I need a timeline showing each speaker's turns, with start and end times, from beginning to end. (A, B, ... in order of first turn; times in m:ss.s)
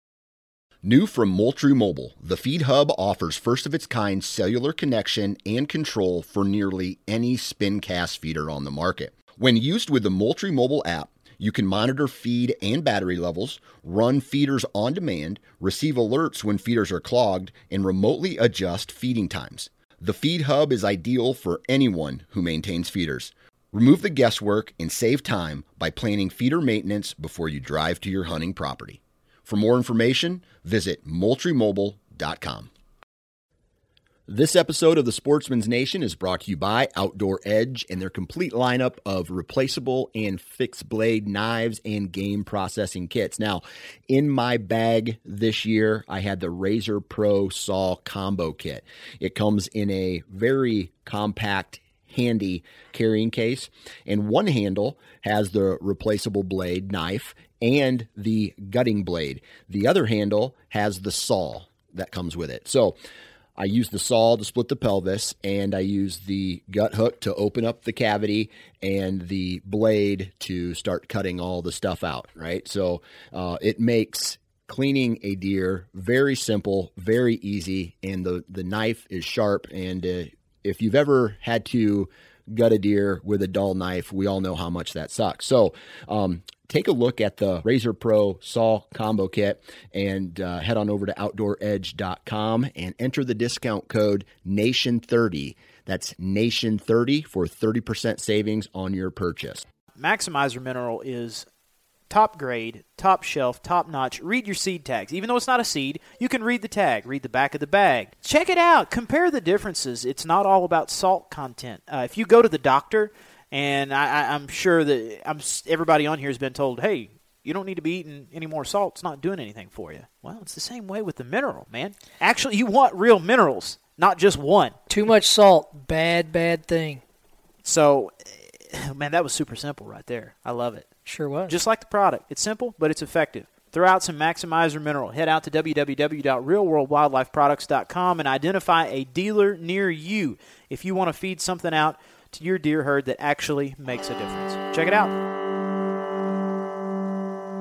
0:00.8-0:32.7 A
0:34.3-1:03.0 A
1:03.6-1:39.6 A
1:40.0-1:41.5 B
1:42.1-2:04.8 B
2:04.9-2:07.0 C
2:07.6-2:10.9 B
2:11.1-2:11.6 C
2:11.5-2:25.1 B